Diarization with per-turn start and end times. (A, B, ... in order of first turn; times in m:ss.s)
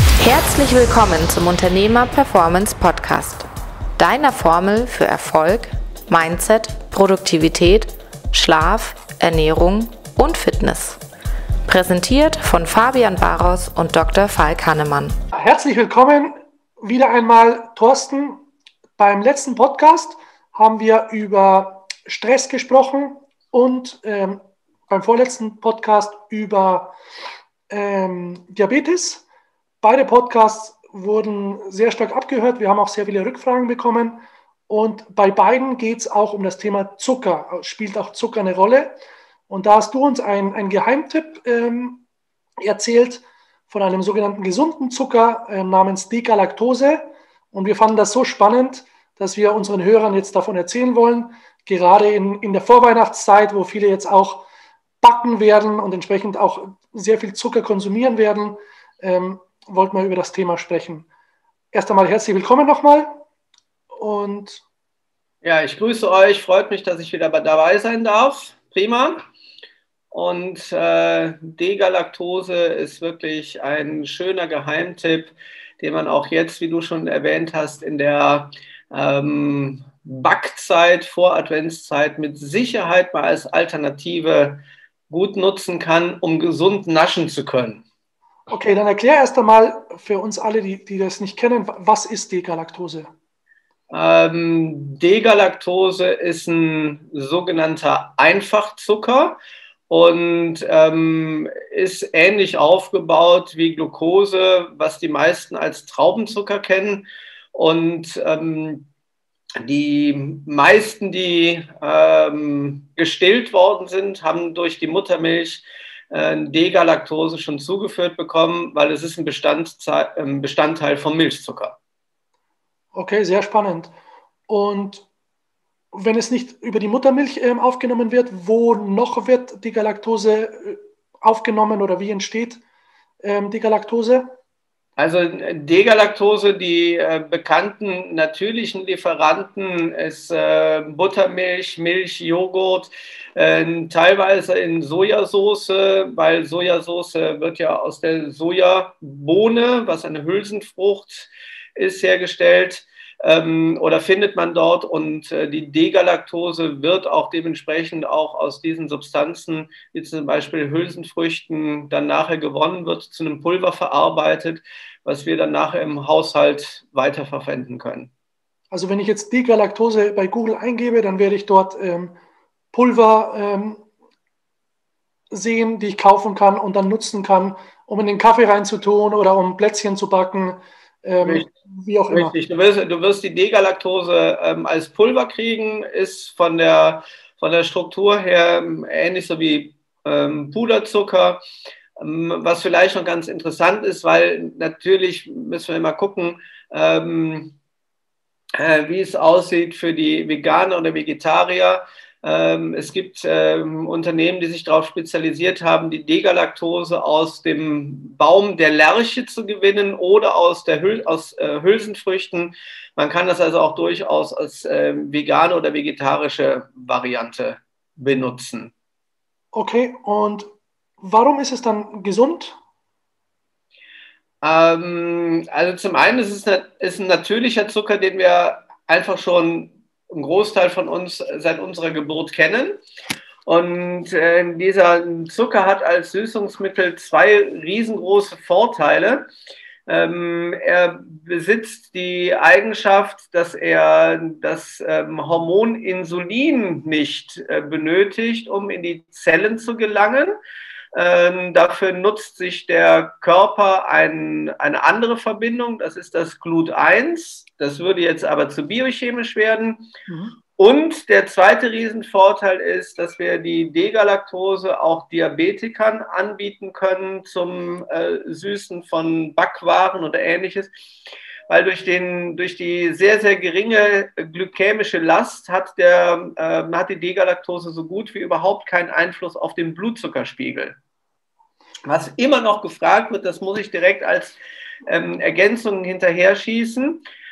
0:00.2-0:03.5 A
0:04.0-0:11.0 A
0:11.7-0:15.2 A
0:15.3-0:18.4 B
0:19.0-0:27.0 B
0:27.7-0:29.3 B
0:29.8-0:42.0 B
0:42.6-0:54.5 B
0:55.0-1:01.1 B
1:01.7-1:03.2 B
1:04.0-1:04.6 B
1:05.4-1:09.2 C
1:10.1-1:27.8 C
1:28.5-1:33.1 B
1:33.9-1:39.4 C
1:39.9-1:48.9 C
1:49.6-2:01.8 C
2:02.9-2:03.9 B
2:04.5-2:05.1 B
2:05.9-2:12.6 B
2:13.2-2:14.3 B
2:15.0-2:48.1 C
2:48.7-2:52.2 B
2:52.7-2:53.8 B
2:55.3-3:02.4 B
3:01.2-3:01.5 C
3:02.1-3:11.4 C
3:12.0-3:17.6 C
3:18.6-3:38.7 C
3:39.5-3:40.5 B
3:41.0-3:42.6 B
3:44.4-3:52.8 C
3:53.5-3:59.3 C
3:59.9-4:10.4 C
4:10.9-4:19.9 C
4:20.1-4:20.4 B
4:20.6-4:30.7 C
4:31.5-4:40.8 C
4:41.9-4:47.0 C